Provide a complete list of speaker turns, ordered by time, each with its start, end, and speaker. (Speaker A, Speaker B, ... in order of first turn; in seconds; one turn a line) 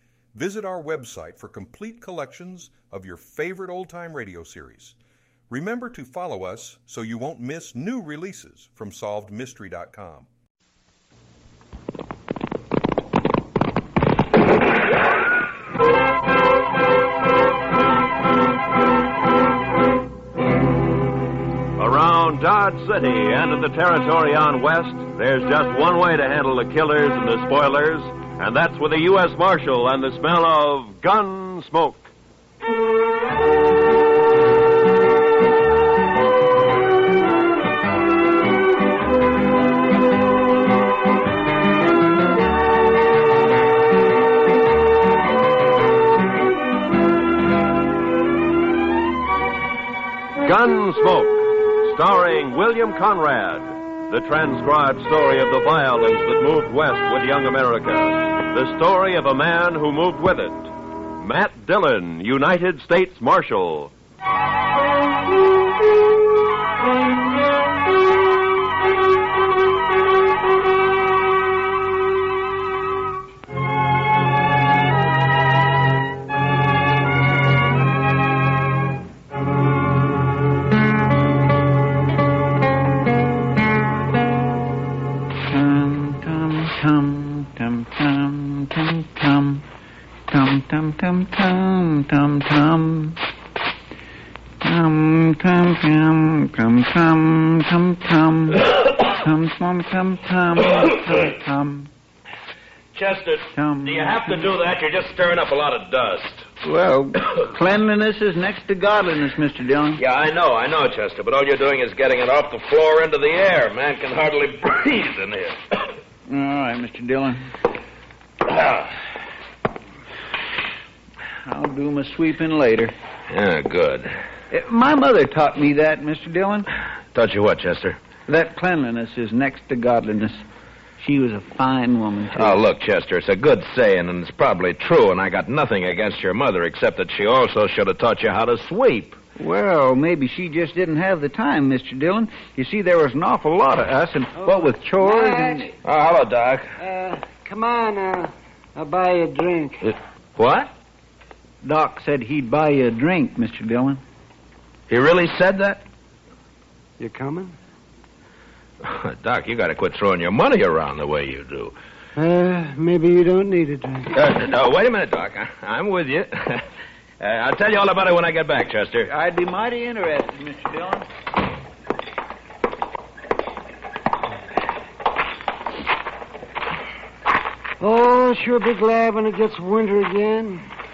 Speaker A: 0.3-5.0
Speaker A: 5.5-10.3
Speaker B: 21.8-32.1
Speaker B: 50.4-63.9
Speaker C: 85.5-89.6
Speaker C: 90.3-93.2
Speaker C: 94.6-101.9
Speaker D: 103.0-106.5
Speaker C: 103.6-104.5
Speaker C: 106.6-110.0
Speaker D: 110.0-115.6
Speaker C: 116.3-117.5
Speaker D: 118.5-118.9
Speaker C: 121.5-123.0
Speaker D: 123.3-124.2
Speaker C: 124.5-126.7
Speaker D: 127.1-128.0
Speaker C: 128.3-130.4
Speaker C: 131.0-132.6
Speaker D: 132.3-139.2
Speaker C: 139.4-145.7
Speaker E: 144.4-145.7
Speaker D: 145.8-146.7
Speaker E: 146.8-149.9
Speaker D: 150.4-150.7
Speaker C: 151.6-154.0
Speaker D: 154.9-155.8
Speaker E: 157.0-157.6
Speaker D: 158.8-161.8
Speaker E: 162.2-164.1
Speaker D: 164.2-166.7
Speaker D: 167.2-169.1
Speaker C: 169.1-171.1
Speaker E: 177.8-180.7